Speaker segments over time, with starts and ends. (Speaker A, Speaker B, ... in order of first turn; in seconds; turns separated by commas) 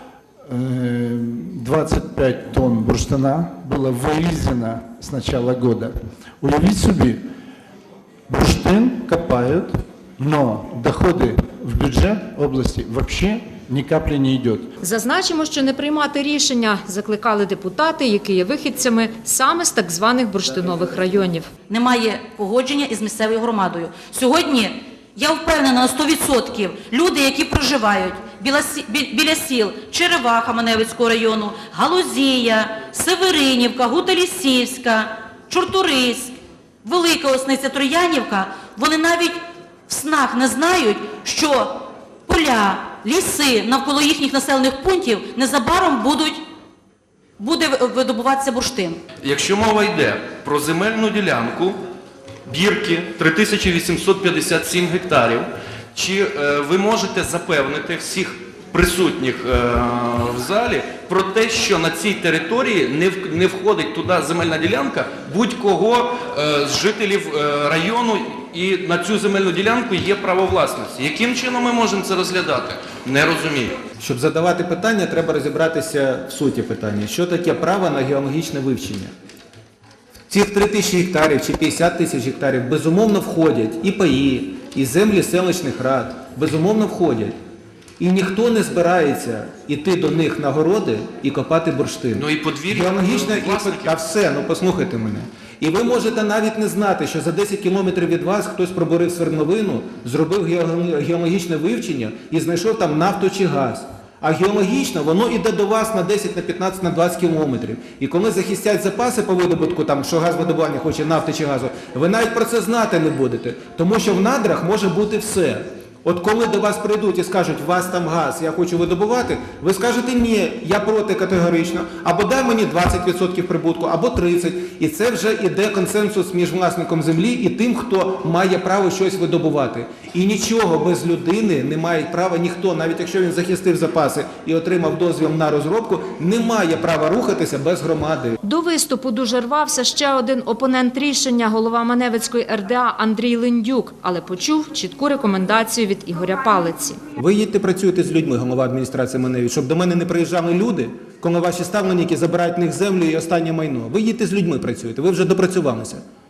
Speaker A: 0.5-7.2, Speaker A: 8.3-14.7, Speaker B: 14.8-21.5, Speaker C: 21.7-46.4, Speaker C: 47.4-49.0, Speaker D: 49.2-51.8, Speaker D: 52.5-73.8, Speaker E: 74.0-79.1, Speaker E: 80.3-87.4, Speaker E: 88.0-138.4, Speaker D: 92.2-94.0, Speaker B: 138.4-147.0, Speaker E: 147.2-156.0